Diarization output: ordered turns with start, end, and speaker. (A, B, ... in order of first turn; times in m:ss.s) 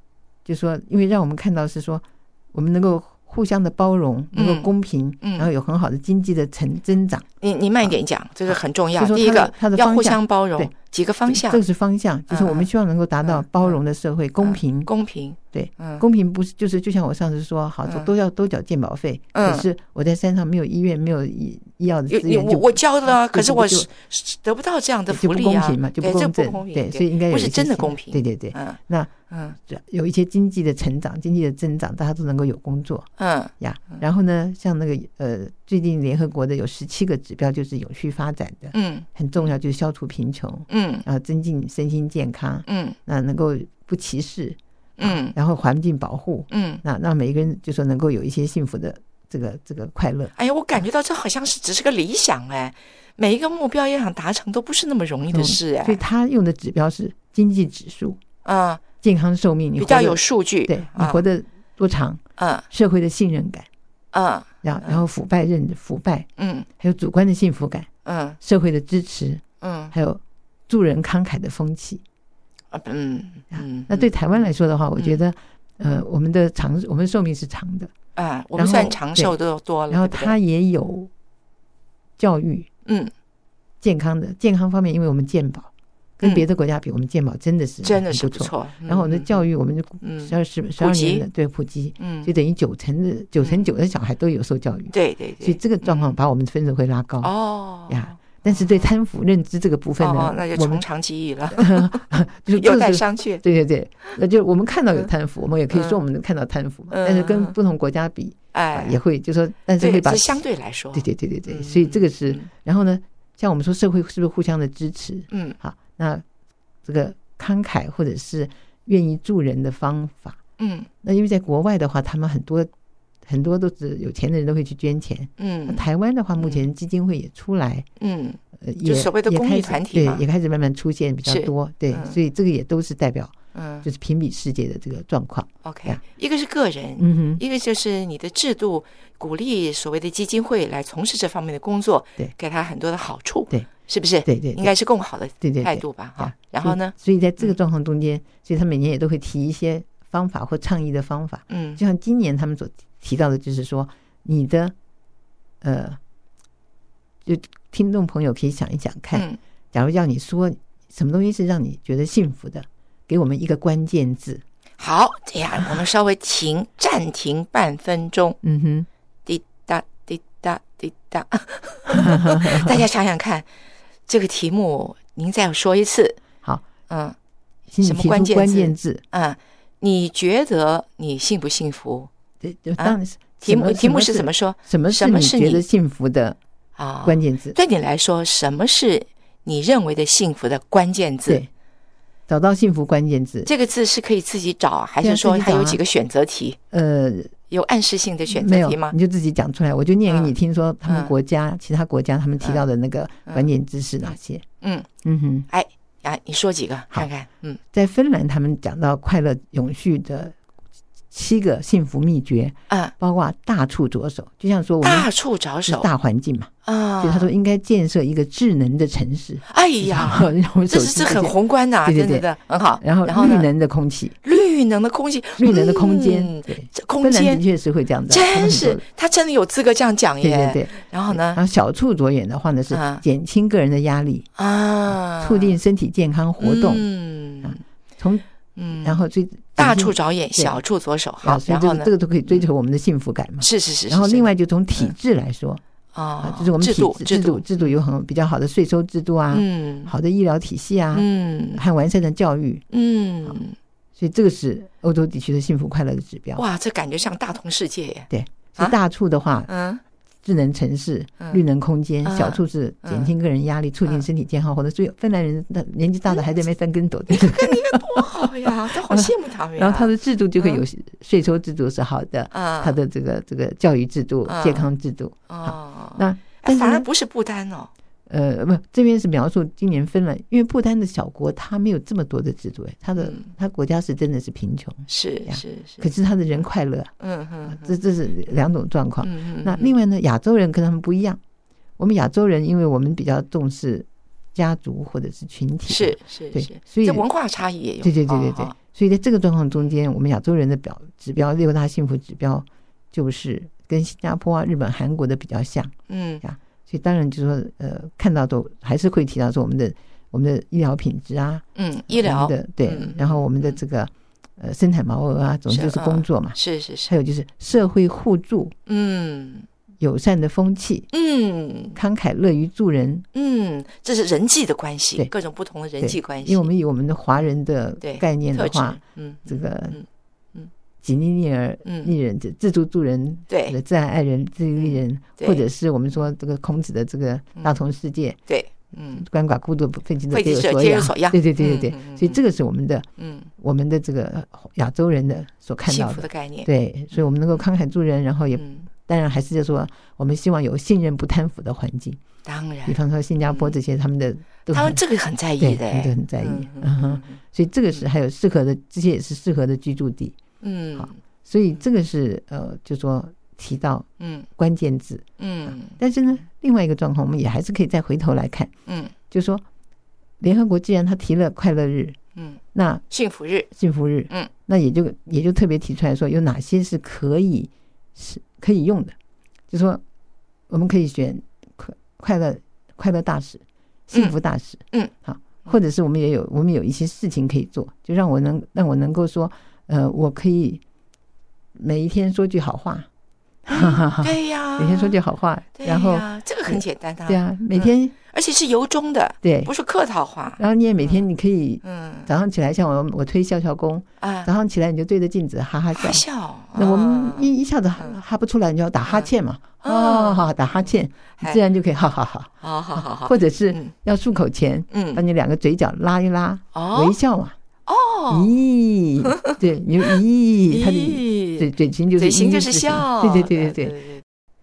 0:00.4-0:07.2 A
0:04.3-0:04.7 B
0:05.2-0:05.5 B
0:07.4-0:11.6 B
0:08.5-0:10.7 A
0:11.3-0:14.9 A
0:12.3-0:12.7 B
0:13.2-0:13.8 B
0:14.4-0:16.0 B
0:15.5-0:23.9 A
0:17.8-0:18.1 B
0:19.3-0:19.7 B
0:22.1-0:29.6 B
0:25.1-0:29.1 A
0:29.7-0:33.1 A
0:33.2-0:34.0 B
0:33.6-0:50.8 A
0:38.7-0:39.1 B
0:40.7-0:41.0 B
0:42.6-0:43.0 B
0:45.0-0:45.3 B
0:46.5-0:46.8 B
0:50.4-0:56.0 B
0:55.3-0:58.2 A
0:58.4-0:58.8 B
0:59.0-1:02.2 A
0:59.8-1:01.2 B
1:02.4-1:02.7 B
1:02.7-1:03.7 A
1:04.1-1:05.0 B
1:04.6-1:06.3 A
1:06.4-1:06.7 B
1:06.8-1:07.9 A
1:08.0-1:08.4 B
1:08.4-1:12.0 A
1:09.6-1:09.9 B
1:12.7-1:14.1 B
1:13.5-1:17.9 A
1:15.0-1:15.2 B
1:18.2-1:20.4 B
1:18.6-1:19.4 A
1:19.9-1:21.1 A
1:22.2-1:22.7 A
1:22.8-1:23.1 B
1:23.8-1:37.3 A
1:27.8-1:29.4 B
1:30.0-1:31.2 B
1:32.0-1:32.3 B
1:33.4-1:33.6 B
1:34.9-1:36.2 B
1:37.2-1:38.9 B
1:37.9-1:40.8 A
1:40.0-1:43.4 B
1:41.5-1:56.2 A
1:45.7-1:46.0 B
1:46.9-1:47.6 B
1:48.5-1:49.0 B
1:49.8-1:52.5 B
1:55.3-1:55.6 B
1:56.8-2:00.4 A
2:00.6-2:00.9 B
2:01.0-2:02.7 A
2:03.2-2:07.9 A
2:05.4-2:05.8 B
2:06.4-2:06.6 B
2:08.0-2:10.2 B
2:08.6-2:13.3 A
2:11.2-2:12.2 B
2:13.5-2:13.9 B
2:13.8-2:16.0 A
2:15.6-2:27.6 B
2:17.0-2:17.4 A
2:24.2-2:24.7 A
2:25.4-2:34.7 A
2:31.5-2:31.8 B
2:35.6-2:36.0 A
2:37.2-2:44.4 A
2:39.1-2:39.4 B
2:44.8-2:48.4 B
2:48.4-2:48.9 A
2:49.2-2:53.4 B
2:51.9-2:52.8 A
2:54.1-2:56.2 B
2:56.9-2:57.2 B
2:57.7-2:59.0 A
2:57.8-3:02.1 B
3:02.4-3:06.4 A
3:02.8-3:05.6 B
3:06.8-3:11.4 B
3:07.0-3:07.6 A
3:12.3-3:13.5 A
3:13.4-3:16.6 B
3:15.0-3:15.8 A
3:16.7-3:17.4 A
3:17.5-3:19.0 B
3:18.3-3:24.4 A
3:20.0-3:20.3 B
3:20.8-3:21.1 B
3:24.0-3:24.9 B
3:25.0-3:25.5 A
3:25.5-3:27.6 B
3:27.7-3:30.4 A
3:31.1-3:35.1 A
3:34.8-3:35.9 B
3:35.6-3:42.3 A
3:36.6-3:37.3 B
3:39.5-3:43.5 B
3:42.8-3:44.2 A
3:44.2-3:47.4 B
3:45.4-3:48.8 A
3:48.1-3:51.4 B
3:50.2-3:54.3 A
3:52.7-3:53.0 B
3:54.4-3:55.6 B
3:55.1-3:56.9 A
3:56.4-3:57.6 B
3:57.4-3:58.2 A
3:58.6-3:59.0 B
3:58.8-4:00.6 A
3:59.6-4:02.5 B
4:01.2-4:05.6 A
4:03.4-4:04.9 B
4:05.9-4:07.8 B
4:06.2-4:12.6 A
4:09.3-4:09.9 B
4:10.9-4:11.6 B
4:12.7-4:13.6 B
4:14.0-4:16.4 A
4:16.4-4:18.8 B
4:18.1-4:19.5 A
4:19.5-4:19.8 B
4:20.2-4:36.9 A
4:22.0-4:23.1 B
4:26.1-4:26.5 B
4:27.1-4:30.6 B
4:32.3-4:32.8 B
4:34.3-4:34.7 B
4:35.3-4:37.7 B
4:38.1-4:46.9 A
4:43.0-4:43.3 B
4:44.9-4:45.9 B
4:47.0-4:47.8 B
4:47.5-4:51.2 A
4:49.0-4:49.7 B
4:51.8-4:57.0 A
4:55.7-4:58.5 B
4:57.8-5:18.5 A
5:05.9-5:06.2 B
5:11.5-5:13.6 B
5:15.5-5:16.9 B
5:18.6-5:19.5 B
5:19.8-5:20.9 A
5:20.9-5:21.8 B
5:21.7-5:23.0 A
5:23.1-5:26.5 B
5:25.8-5:29.8 A
5:27.8-5:30.5 B
5:30.8-5:38.2 A
5:31.6-5:31.9 B
5:33.3-5:33.6 B
5:34.6-5:35.4 B
5:38.3-5:39.0 B
5:38.9-5:42.8 A
5:40.1-5:42.2 B
5:43.0-5:43.3 B
5:43.4-5:52.0 A
5:45.6-5:47.1 B
5:48.3-5:48.6 B
5:52.2-5:53.6 B
5:52.6-5:54.8 A
5:54.5-5:57.2 B
5:55.4-6:00.2 A
6:00.4-6:01.0 B
6:00.8-6:03.8 A
6:04.0-6:04.3 B
6:04.4-6:08.5 A
6:05.2-6:05.8 B
6:08.6-6:08.9 B
6:09.1-6:09.4 A
6:10.2-6:12.0 A
6:12.1-6:13.5 B
6:12.5-6:12.8 A
6:13.5-6:18.9 A
6:19.5-6:19.8 A
6:20.5-6:30.6 A
6:31.5-6:32.9 A
6:33.4-6:37.9 A
6:33.5-6:35.0 B
6:35.6-6:41.0 B
6:39.2-6:39.5 A
6:40.4-6:57.4 A
6:41.6-6:42.1 B
6:44.0-6:44.3 B
6:45.7-6:48.0 B
6:48.8-6:51.4 B
6:52.4-6:53.7 B
6:54.7-6:55.0 B
6:56.5-6:57.0 B
6:57.7-6:58.3 B
6:58.1-7:03.8 A
7:00.5-7:04.0 B